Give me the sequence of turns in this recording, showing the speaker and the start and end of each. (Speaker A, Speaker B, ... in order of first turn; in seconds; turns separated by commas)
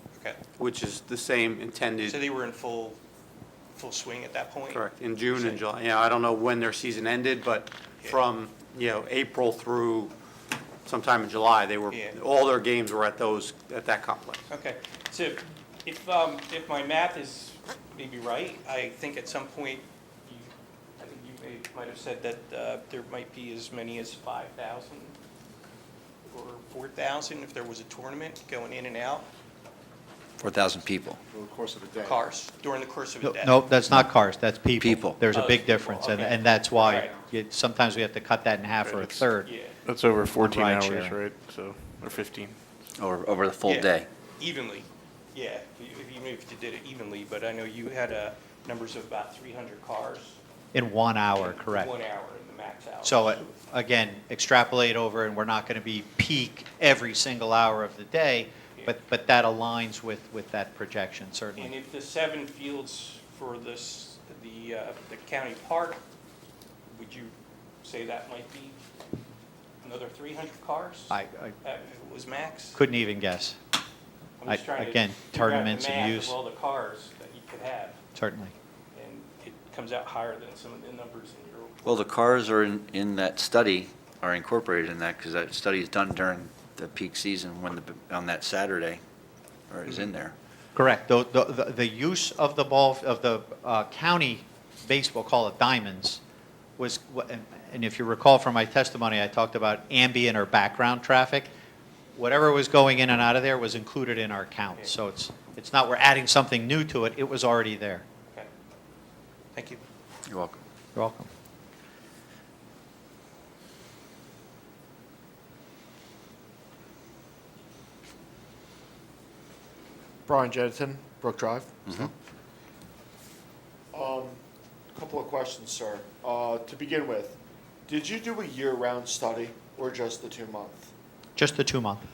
Speaker A: 0.6-2.2, Speaker B: 2.1-3.0, Speaker B: 3.8-5.6, Speaker A: 4.7-10.1, Speaker A: 10.8-14.5, Speaker B: 11.9-12.2, Speaker B: 14.5-25.2, Speaker B: 26.3-29.3, Speaker C: 30.4-31.9, Speaker B: 32.0-33.6, Speaker D: 33.2-39.5, Speaker C: 34.8-35.2, Speaker B: 35.3-37.1, Speaker E: 38.8-39.3, Speaker B: 39.4-39.8, Speaker E: 39.9-42.6, Speaker D: 40.4-41.2, Speaker C: 43.0-44.1, Speaker B: 43.6-50.4, Speaker D: 50.7-51.9, Speaker B: 51.3-53.4, Speaker D: 53.0-61.7, Speaker B: 61.6-66.0, Speaker B: 66.9-67.3, Speaker B: 67.8-68.8, Speaker B: 69.8-72.8, Speaker D: 71.1-71.6, Speaker D: 72.8-73.6, Speaker B: 74.4-78.0, Speaker D: 74.5-76.3, Speaker D: 78.2-78.5, Speaker B: 78.9-82.1, Speaker C: 81.8-89.0, Speaker C: 89.7-90.3, Speaker D: 90.8-96.2, Speaker D: 96.8-101.5, Speaker D: 102.2-108.0, Speaker B: 109.5-109.8, Speaker D: 111.0-111.3, Speaker F: 120.3-122.1, Speaker F: 123.9-124.4, Speaker F: 124.9-130.9, Speaker D: 131.4-132.1